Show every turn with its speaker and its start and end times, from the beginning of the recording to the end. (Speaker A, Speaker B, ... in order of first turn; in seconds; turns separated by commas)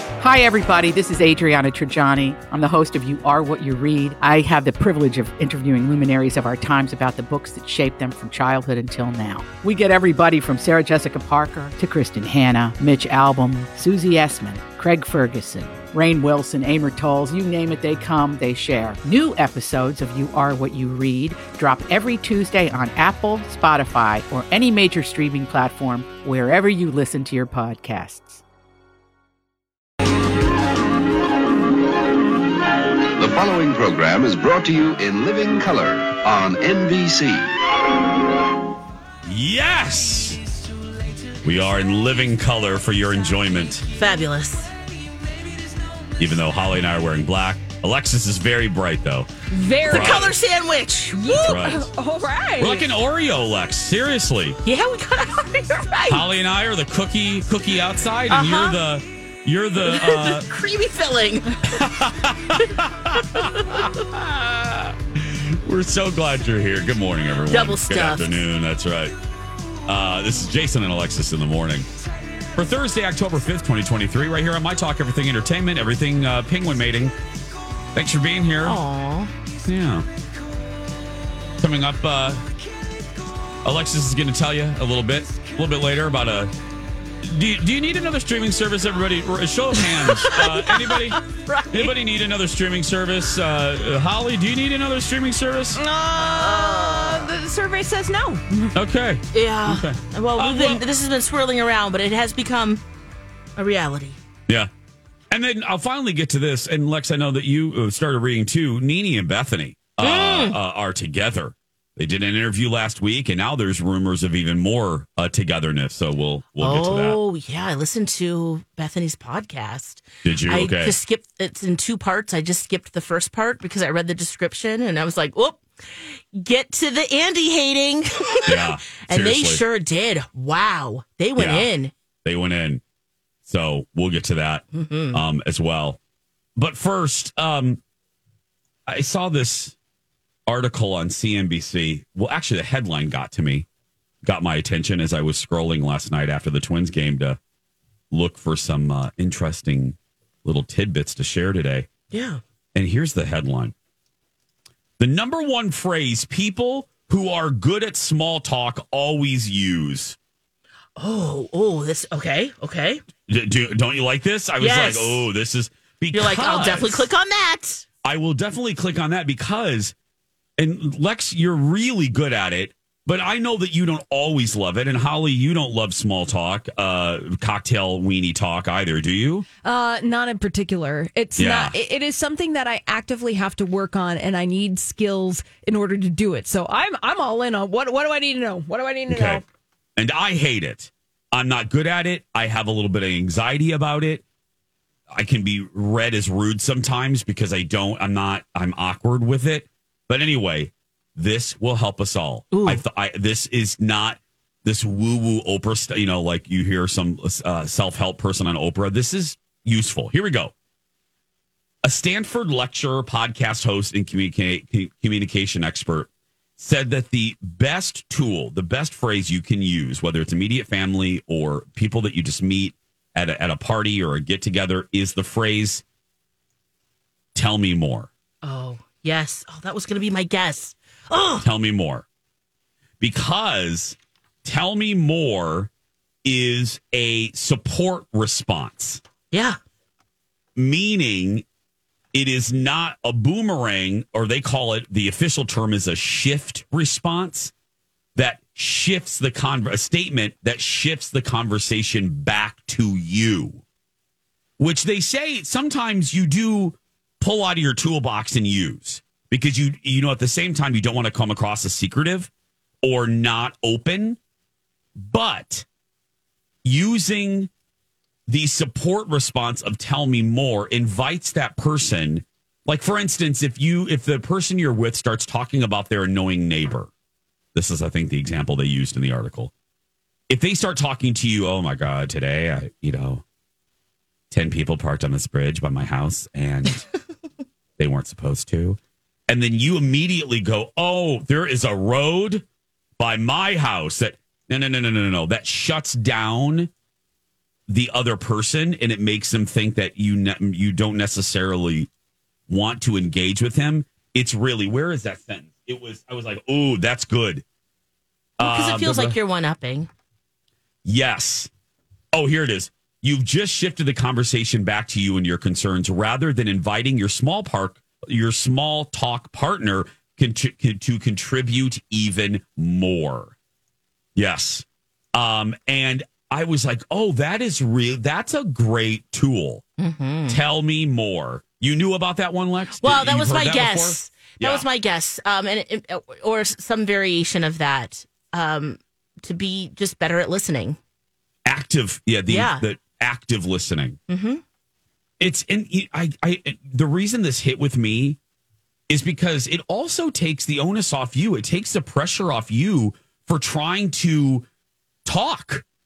Speaker A: 0.2-28.4, Speaker B: 33.1-37.5, Speaker C: 39.2-40.4, Speaker C: 41.4-43.8, Speaker D: 43.9-44.7, Speaker C: 46.2-49.3, Speaker E: 49.5-50.2, Speaker D: 49.8-51.6, Speaker C: 49.9-50.4, Speaker E: 51.1-52.9, Speaker C: 51.4-51.9, Speaker C: 52.6-54.6, Speaker D: 54.6-56.2, Speaker C: 56.1-60.5, Speaker D: 58.3-58.8, Speaker D: 59.8-61.8, Speaker C: 61.7-69.2, Speaker D: 63.3-63.9, Speaker D: 67.5-68.4, Speaker C: 69.9-71.9, Speaker C: 72.5-77.1, Speaker C: 77.9-78.8, Speaker D: 78.6-79.3, Speaker C: 79.7-80.1, Speaker C: 81.6-82.4, Speaker C: 83.6-86.5, Speaker C: 87.2-95.8, Speaker D: 90.0-91.9, Speaker E: 95.8-98.7, Speaker D: 96.2-97.3, Speaker C: 98.7-100.8, Speaker D: 99.3-102.8, Speaker D: 103.6-104.2, Speaker C: 105.3-117.2, Speaker D: 110.0-110.6, Speaker D: 116.6-131.9, Speaker C: 120.2-121.0, Speaker C: 128.4-129.6, Speaker C: 131.3-131.7, Speaker C: 132.2-132.8, Speaker C: 133.4-136.0, Speaker D: 134.7-135.2, Speaker C: 136.6-137.8, Speaker C: 138.9-139.8, Speaker C: 140.5-143.7, Speaker C: 144.2-147.4, Speaker C: 148.1-151.9, Speaker D: 152.1-152.4, Speaker C: 152.7-153.7, Speaker C: 155.0-160.2, Speaker D: 161.0-163.0, Speaker C: 163.3-167.1, Speaker D: 164.6-165.3, Speaker D: 166.1-167.8, Speaker C: 168.0-169.9, Speaker C: 170.6-179.4, Speaker E: 179.6-189.4, Speaker C: 181.4-181.8, Speaker C: 189.1-189.4, Speaker C: 189.9-194.2, Speaker C: 195.1-210.5, Speaker D: 202.5-202.8, Speaker C: 211.8-225.8, Speaker C: 227.3-228.1, Speaker D: 228.4-231.4, Speaker C: 231.4-232.1, Speaker C: 233.0-235.7, Speaker C: 236.2-239.0, Speaker D: 239.3-239.6, Speaker C: 240.6-241.4, Speaker C: 242.1-247.5, Speaker C: 248.2-253.6, Speaker C: 254.6-262.3, Speaker C: 262.8-264.2, Speaker C: 265.0-265.6, Speaker C: 266.6-267.5, Speaker C: 268.3-276.9, Speaker C: 277.5-279.5, Speaker C: 280.3-283.2, Speaker C: 284.3-286.8, Speaker C: 287.8-292.4, Speaker C: 293.0-296.7, Speaker C: 297.7-301.9, Speaker C: 302.5-307.4, Speaker C: 308.4-309.1, Speaker D: 308.4-309.9, Speaker C: 310.8-311.5, Speaker C: 312.1-323.3, Speaker C: 324.1-329.6, Speaker D: 329.8-330.4, Speaker C: 330.3-334.6, Speaker D: 332.8-340.8, Speaker C: 341.4-344.0, Speaker D: 342.3-342.6, Speaker D: 344.1-344.4, Speaker C: 345.2-348.2, Speaker C: 348.9-354.5, Speaker C: 355.0-355.6